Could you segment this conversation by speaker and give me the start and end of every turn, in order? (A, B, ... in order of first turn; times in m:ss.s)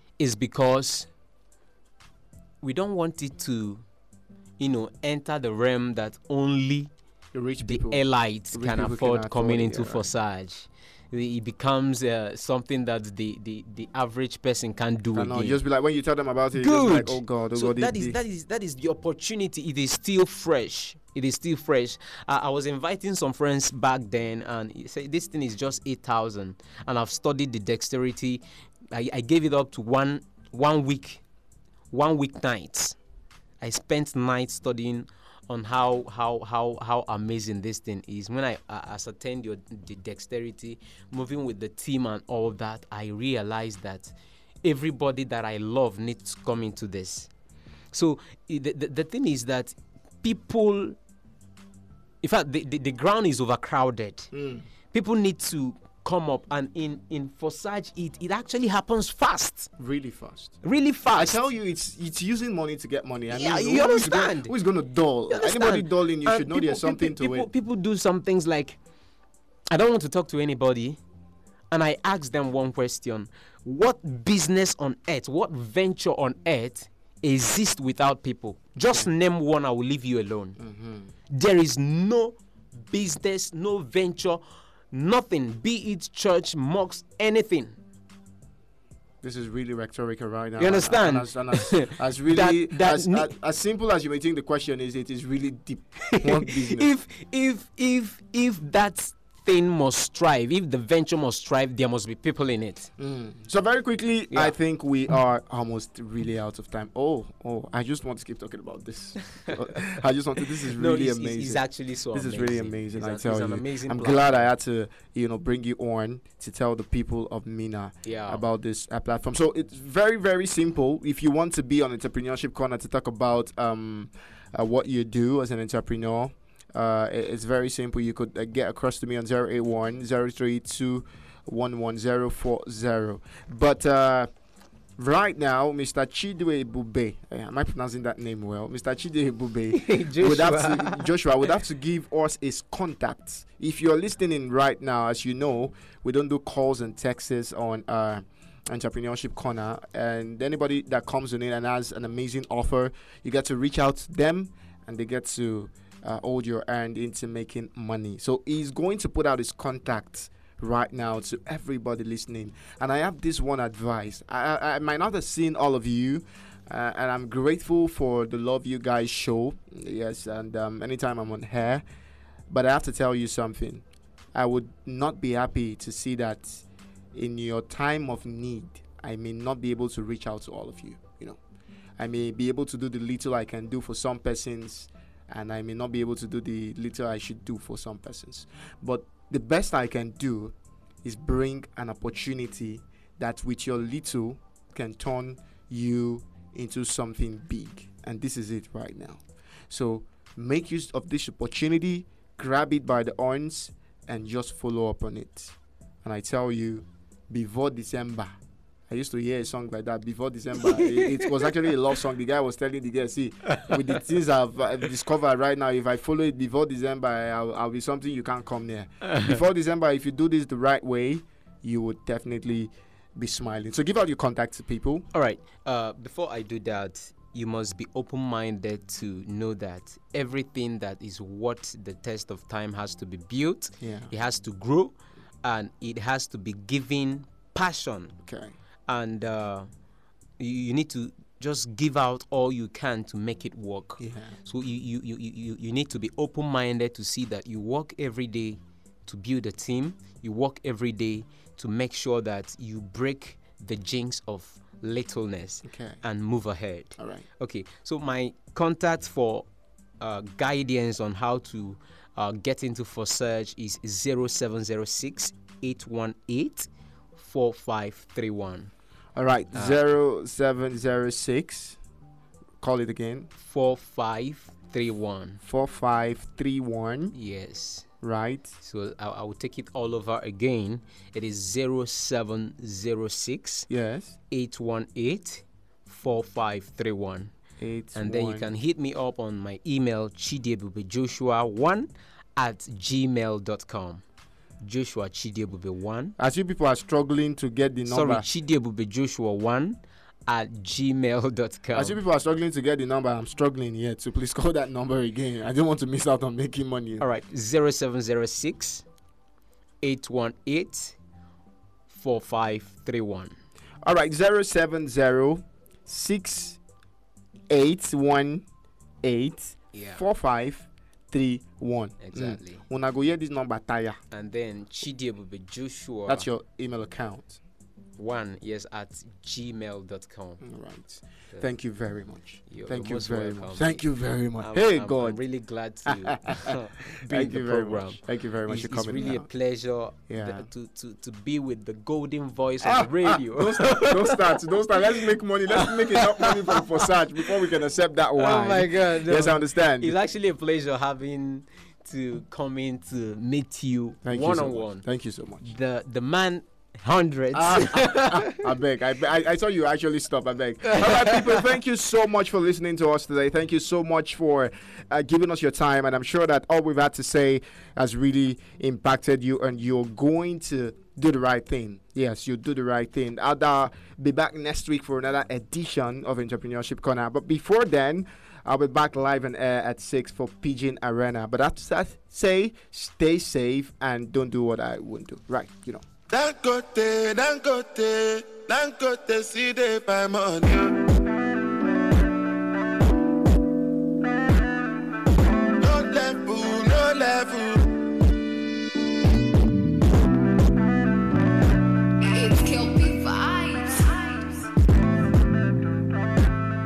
0:00.2-0:01.1 A
0:02.6-0:03.8 A
0:04.6-0:06.9 A
0:07.3-0:10.1 B
0:07.6-0:15.6 A
0:15.1-0:18.2 B
0:16.6-0:31.2 A
0:31.9-0:33.0 A
0:33.6-0:47.3 A
0:47.9-0:51.0 A
0:52.2-0:54.3 A
0:54.3-0:54.6 B
0:54.9-0:59.7 A
0:59.8-1:00.6 B
1:00.6-1:01.4 A
1:01.1-1:07.5 B
1:03.3-1:04.5 A
1:05.3-1:08.8 A
1:09.7-1:11.0 A
1:11.7-1:20.6 A
1:20.6-1:21.1 B
1:21.3-1:22.4 A
1:22.9-1:27.8 A
1:29.2-1:36.9 B
1:30.6-1:33.3 A
1:36.1-1:42.9 A
1:43.0-2:14.3 B
1:49.3-1:54.5 A
1:58.0-1:58.4 A
2:15.0-2:51.8 B
2:19.7-2:21.1 A
2:52.5-2:53.8 B
2:54.3-3:01.4 B
3:02.0-3:28.4 B
3:28.9-3:45.1 B
3:30.8-3:31.3 A
3:39.0-3:39.4 A
3:45.1-3:58.1 A
3:53.8-3:54.1 B
3:58.2-3:58.5 B
3:58.9-3:59.7 A
4:00.4-4:19.5 A
4:04.0-4:04.4 B
4:15.6-4:16.0 B
4:17.0-4:17.2 B
4:20.0-4:28.7 A
4:29.2-4:31.8 B
4:29.5-4:29.8 A
4:32.6-4:33.3 B
4:33.4-4:35.4 A
4:35.4-4:37.1 B
4:37.1-4:37.8 A
4:38.0-4:38.5 B
4:38.6-4:43.7 A
4:43.7-4:44.2 B
4:44.3-4:47.3 A
4:47.6-4:48.5 B
4:47.9-4:54.0 A
4:54.6-4:56.2 A
4:56.2-4:58.2 B
4:57.9-5:02.0 A
5:01.7-5:07.0 B
5:07.0-5:08.8 A
5:09.8-5:11.0 A
5:11.9-5:13.4 A
5:13.8-5:16.6 B
5:17.5-5:18.4 B
5:19.0-5:24.0 B
5:19.7-5:20.0 A
5:22.0-5:22.6 A
5:24.1-5:26.3 A
5:26.1-5:27.4 B
5:28.0-5:30.4 A
5:30.4-5:35.2 B
5:32.5-5:33.8 A
5:34.4-5:47.3 A
5:35.9-5:39.3 B
5:40.1-5:40.5 B
5:42.6-5:49.9 B
5:48.2-5:54.8 A
5:54.0-5:55.5 B
5:55.4-5:58.5 A
5:57.3-6:25.8 B
6:00.6-6:01.4 A
6:26.1-6:31.0 C
6:35.6-6:37.8 C
6:42.0-6:44.5 D